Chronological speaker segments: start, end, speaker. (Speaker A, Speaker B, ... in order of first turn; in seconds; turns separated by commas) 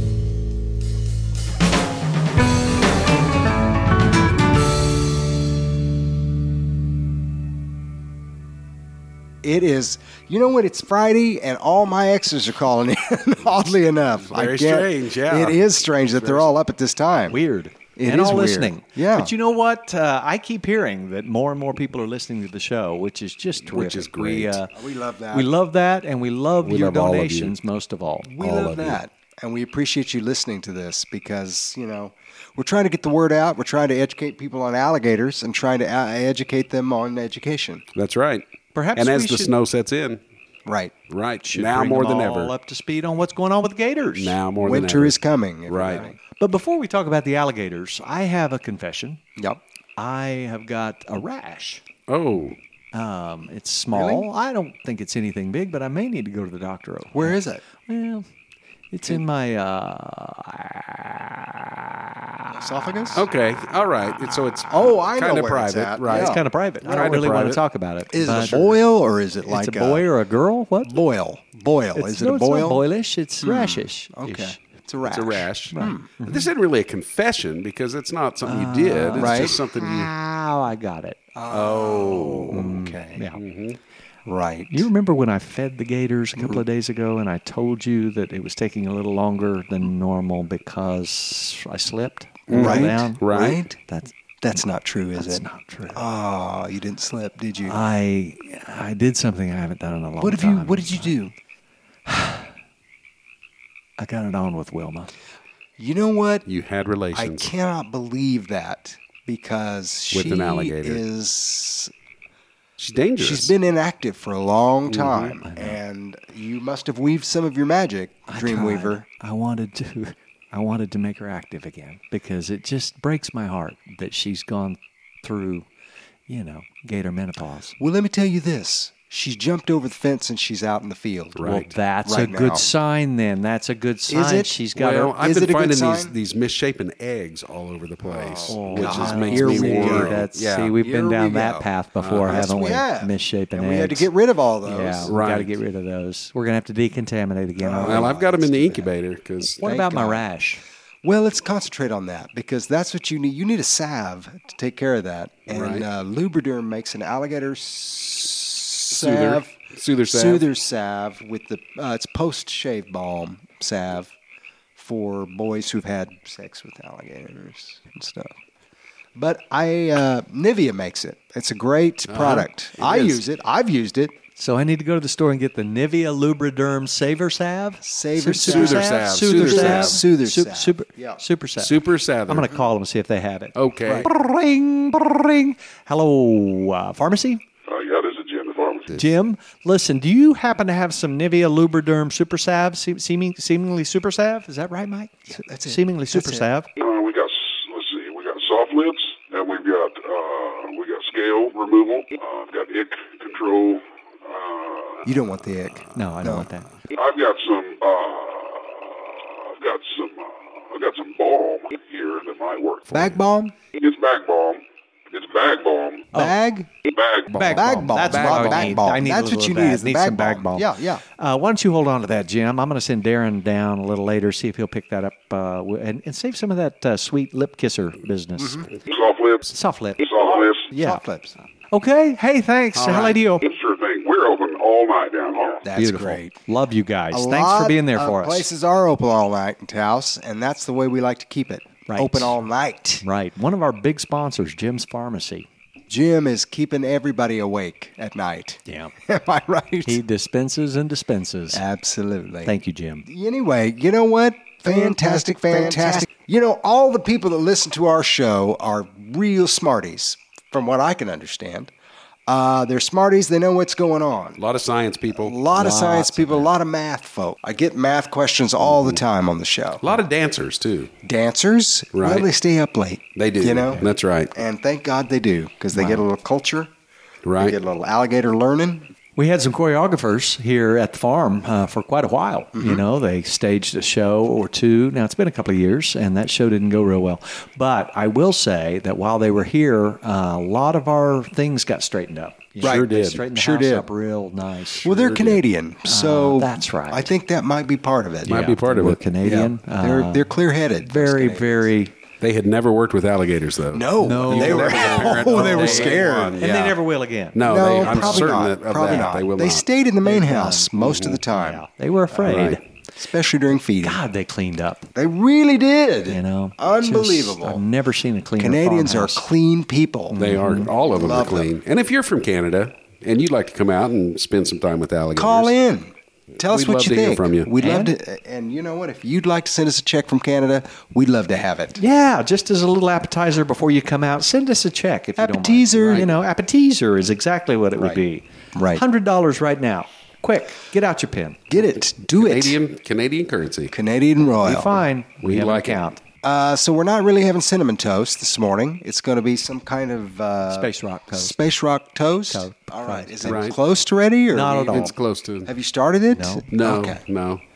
Speaker A: 9.4-17.4, Speaker B: 14.2-16.5, Speaker C: 17.3-24.7, Speaker A: 17.9-19.3, Speaker B: 23.6-24.6, Speaker A: 24.7-25.5, Speaker C: 25.3-29.0, Speaker B: 26.6-27.5, Speaker A: 28.2-37.8, Speaker B: 37.9-40.2, Speaker C: 38.7-39.5, Speaker A: 40.6-40.9, Speaker B: 41.1-42.5, Speaker C: 41.4-44.4, Speaker B: 44.1-46.1, Speaker A: 44.6-46.1, Speaker C: 46.0-49.2, Speaker C: 50.0-51.8, Speaker B: 52.1-52.6, Speaker C: 52.9-58.2, Speaker A: 53.9-54.3, Speaker A: 57.1-57.6, Speaker C: 58.9-62.5, Speaker A: 62.5-63.2, Speaker B: 63.1-67.6, Speaker A: 64.7-67.2, Speaker C: 66.1-68.7, Speaker A: 68.1-70.1, Speaker C: 69.5-71.0, Speaker A: 70.8-72.8, Speaker C: 71.9-74.6, Speaker A: 73.4-76.1, Speaker B: 75.0-80.1, Speaker C: 75.7-76.5, Speaker C: 78.4-81.2, Speaker A: 79.2-79.5, Speaker A: 81.3-83.2, Speaker B: 81.5-82.6, Speaker C: 82.5-83.4, Speaker B: 83.3-83.8, Speaker A: 84.2-84.9, Speaker C: 84.7-93.2, Speaker A: 86.4-86.6, Speaker B: 92.5-93.6, Speaker A: 92.5-93.8, Speaker C: 93.8-94.1, Speaker A: 94.4-97.8, Speaker C: 95.1-96.0, Speaker C: 97.7-101.2, Speaker A: 100.2-101.3, Speaker C: 102.0-102.5, Speaker C: 104.0-105.1, Speaker A: 105.8-106.5, Speaker B: 106.5-107.5, Speaker A: 107.1-111.9, Speaker B: 110.1-111.0, Speaker B: 112.8-113.5, Speaker A: 113.2-119.0, Speaker B: 114.9-115.3, Speaker C: 115.4-115.8, Speaker C: 118.3-125.7, Speaker C: 126.3-127.8, Speaker A: 127.8-132.7, Speaker B: 131.3-131.7, Speaker C: 131.4-135.2, Speaker A: 134.1-134.6, Speaker B: 134.7-140.8, Speaker A: 135.2-136.1, Speaker A: 138.0-140.2, Speaker C: 138.5-144.1, Speaker A: 140.8-141.7, Speaker B: 142.0-142.4, Speaker A: 142.2-145.1, Speaker C: 144.6-148.2, Speaker B: 145.1-145.5, Speaker A: 147.6-148.9, Speaker B: 147.8-149.6, Speaker A: 149.6-150.2, Speaker C: 149.6-150.6, Speaker A: 151.0-159.5, Speaker B: 155.5-155.8, Speaker B: 158.9-160.4, Speaker A: 160.1-164.1, Speaker A: 164.8-168.3, Speaker A: 169.1-174.2, Speaker B: 172.1-173.2, Speaker C: 174.4-187.4, Speaker A: 177.8-181.2, Speaker B: 178.4-180.0, Speaker B: 181.6-182.5, Speaker B: 183.6-184.1, Speaker D: 187.7-189.0, Speaker C: 188.9-196.7, Speaker A: 195.3-196.5, Speaker D: 196.8-205.1, Speaker A: 205.0-206.5, Speaker C: 205.9-206.7, Speaker D: 206.9-213.1, Speaker A: 212.9-213.5, Speaker D: 213.7-216.1, Speaker A: 216.1-216.7, Speaker D: 216.8-217.5, Speaker C: 217.3-228.7, Speaker B: 217.4-218.8, Speaker A: 217.5-221.0, Speaker A: 228.4-228.7, Speaker D: 228.8-230.7, Speaker C: 229.5-230.0, Speaker C: 230.7-231.0, Speaker A: 230.7-231.3, Speaker C: 231.7-233.4, Speaker B: 232.7-233.2, Speaker D: 233.4-235.7, Speaker A: 235.6-236.4, Speaker C: 235.7-238.5, Speaker A: 237.1-243.0, Speaker C: 241.9-242.4, Speaker C: 243.0-245.5, Speaker A: 245.9-250.0, Speaker C: 248.7-248.9, Speaker C: 249.8-251.6, Speaker A: 251.5-261.7, Speaker C: 252.4-253.1, Speaker C: 254.7-256.0, Speaker A: 262.3-264.4, Speaker B: 264.4-265.4, Speaker A: 265.1-269.8, Speaker C: 265.5-266.5, Speaker B: 268.6-269.0, Speaker B: 269.8-270.9, Speaker A: 271.0-276.7, Speaker B: 271.9-272.3, Speaker B: 273.1-274.3, Speaker C: 275.7-276.0, Speaker B: 277.2-277.6, Speaker A: 277.4-278.9, Speaker C: 279.2-295.1, Speaker A: 282.5-282.8, Speaker B: 292.6-293.2, Speaker A: 292.6-293.9, Speaker A: 294.8-298.4, Speaker B: 294.9-295.4, Speaker C: 295.8-297.1, Speaker B: 298.2-299.0, Speaker C: 298.2-301.9, Speaker A: 299.2-301.7, Speaker B: 302.2-306.7, Speaker A: 303.7-306.7, Speaker C: 304.0-308.4, Speaker B: 307.3-309.7, Speaker A: 307.4-311.6, Speaker C: 310.0-310.7, Speaker B: 310.8-311.2, Speaker C: 311.3-312.6, Speaker B: 312.2-312.6, Speaker A: 312.9-314.0, Speaker C: 313.8-314.9, Speaker A: 314.9-317.6, Speaker C: 316.1-319.2, Speaker A: 318.4-320.2, Speaker C: 320.1-320.7, Speaker B: 320.1-325.5, Speaker A: 320.8-321.5, Speaker A: 325.1-331.8, Speaker B: 326.4-327.5, Speaker C: 327.6-327.9, Speaker C: 331.8-341.4, Speaker A: 335.2-336.2, Speaker A: 337.8-338.8, Speaker A: 341.5-342.6, Speaker B: 341.5-343.7, Speaker A: 343.7-344.8, Speaker C: 344.4-346.0, Speaker B: 345.2-345.8, Speaker A: 346.2-357.0, Speaker C: 350.5-351.4, Speaker C: 352.3-353.5, Speaker B: 353.2-353.6, Speaker C: 354.3-354.9, Speaker B: 354.4-355.5, Speaker C: 356.1-356.4, Speaker B: 356.5-357.4